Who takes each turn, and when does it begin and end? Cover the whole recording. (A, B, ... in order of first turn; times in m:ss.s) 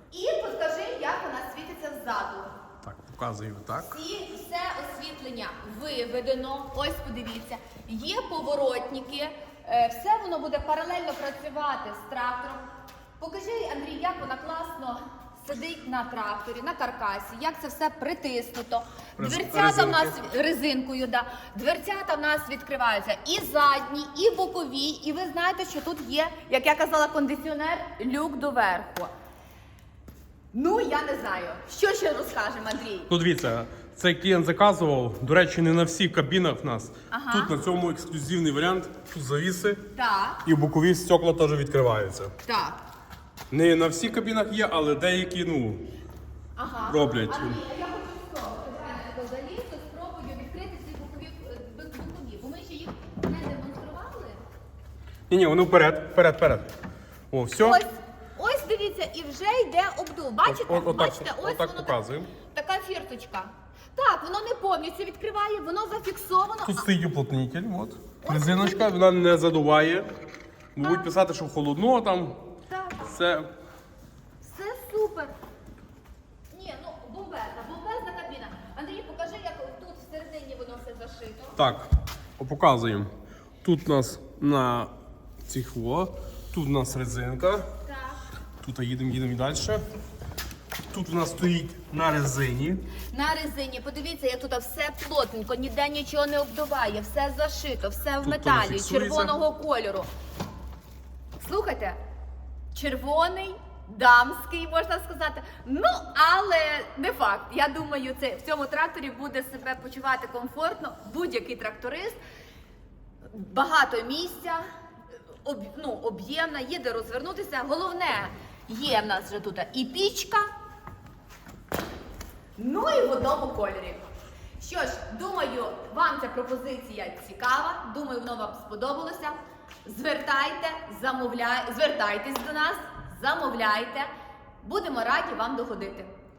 0:00.1-0:02.5 A
0:02.8-0:04.0 B
0:03.8-0:12.6 A
0:13.2-0:29.1 A
0:19.2-0:20.2 B
0:30.5-0:33.1 A
0:33.1-0:39.8 B
0:37.1-0:37.5 A
0:39.9-0:40.4 A
0:40.4-0:42.3 B
0:42.4-0:42.8 A
0:43.5-0:45.8 B
0:46.6-0:54.4 A
0:46.9-0:47.6 B
0:55.3-0:56.7 B
0:57.3-0:57.8 B
0:57.6-1:02.0 A
1:00.4-1:02.3 B
1:02.5-1:06.8 A
1:06.6-1:10.1 B
1:08.2-1:08.9 A
1:10.7-1:12.4 B
1:10.8-1:11.1 A
1:12.7-1:13.0 A
1:13.0-1:13.5 B
1:14.4-1:15.3 A
1:16.5-1:21.6 A
1:21.6-1:21.9 B
1:22.4-1:23.1 B
1:23.6-1:24.9 B
1:25.4-1:27.6 B
1:27.8-1:28.2 A
1:28.6-1:29.8 B
1:30.9-1:32.8 B
1:33.1-1:40.1 A
1:38.2-1:39.3 B
1:41.4-1:42.0 A
1:42.7-1:52.2 A
1:53.3-1:54.6 A
1:55.4-2:00.5 A
2:02.6-2:04.1 A
2:04.6-2:14.1 A
2:14.6-2:16.1 A